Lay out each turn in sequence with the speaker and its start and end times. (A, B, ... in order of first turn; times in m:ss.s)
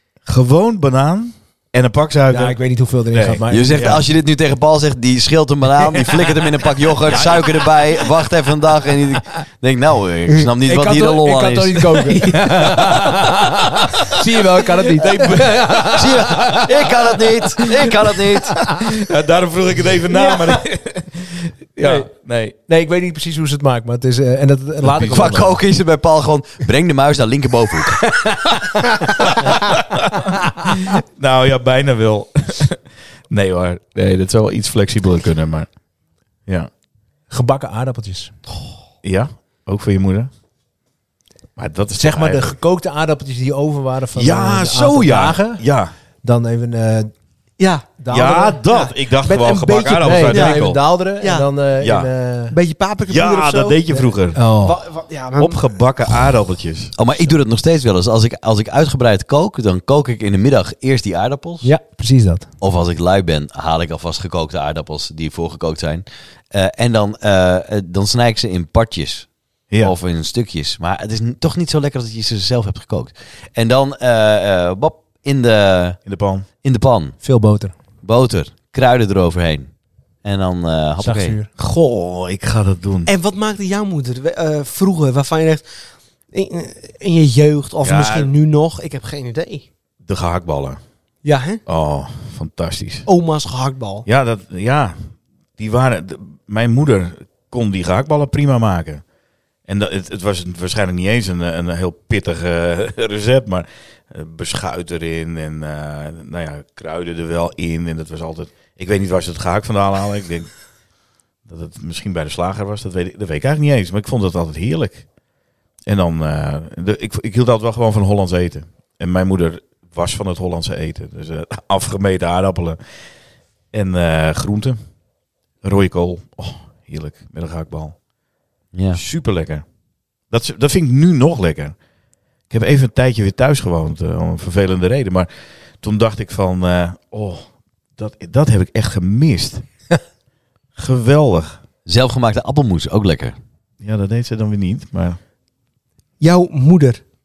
0:00.3-0:04.0 A
0:02.3-0:04.0 B
0:03.5-0:12.3 C
0:07.1-0:07.6 A
0:10.4-0:17.7 B
0:15.0-0:15.6 A
0:15.8-0:18.6 C
0:18.6-0:18.9 B
0:18.7-0:22.6 A
0:21.8-0:22.1 B
0:22.7-0:25.6 B
0:24.8-0:25.6 A
0:25.1-0:28.0 C
0:28.0-0:29.6 B
0:29.2-0:35.7 A
0:37.3-0:38.3 B
0:39.0-0:40.3 A
0:41.6-0:42.6 A
0:42.0-0:45.6 B
0:44.2-0:45.9 A
0:46.2-0:47.1 B
0:47.6-0:48.0 D
0:48.0-0:48.6 B
0:48.1-0:50.8 A
0:48.7-0:51.5 D
0:50.0-0:52.6 B
0:51.8-0:52.1 A
0:52.5-0:55.6 D
0:53.1-0:54.4 A
0:54.3-0:54.8 B
0:55.4-0:57.3 A
0:57.0-1:01.7 C
1:01.6-1:02.5 B
1:02.6-1:09.3 C
1:09.8-1:16.0 C
1:16.1-1:16.5 A
1:16.6-1:17.2 C
1:17.2-1:17.7 B
1:18.0-1:19.7 C
1:20.2-1:21.4 C
1:21.0-1:21.5 B
1:21.6-1:23.1 A
1:23.1-1:25.7 D
1:26.3-1:29.7 D
1:27.8-1:28.3 A
1:30.0-1:30.8 A
1:31.2-1:31.6 D
1:31.7-1:33.1 A
1:33.1-1:34.1 D
1:34.1-1:39.0 A
1:39.7-1:50.5 A
1:51.5-1:55.1 A
1:55.9-2:02.8 A
2:03.7-2:04.8 A
2:05.6-2:08.0 A
2:08.7-2:09.0 C
2:09.0-2:09.6 A
2:10.3-2:11.8 A
2:12.5-2:15.3 A
2:15.8-2:19.6 A
2:20.8-2:21.6 A
2:21.9-2:23.4 C
2:23.8-2:25.2 A
2:26.2-2:27.0 D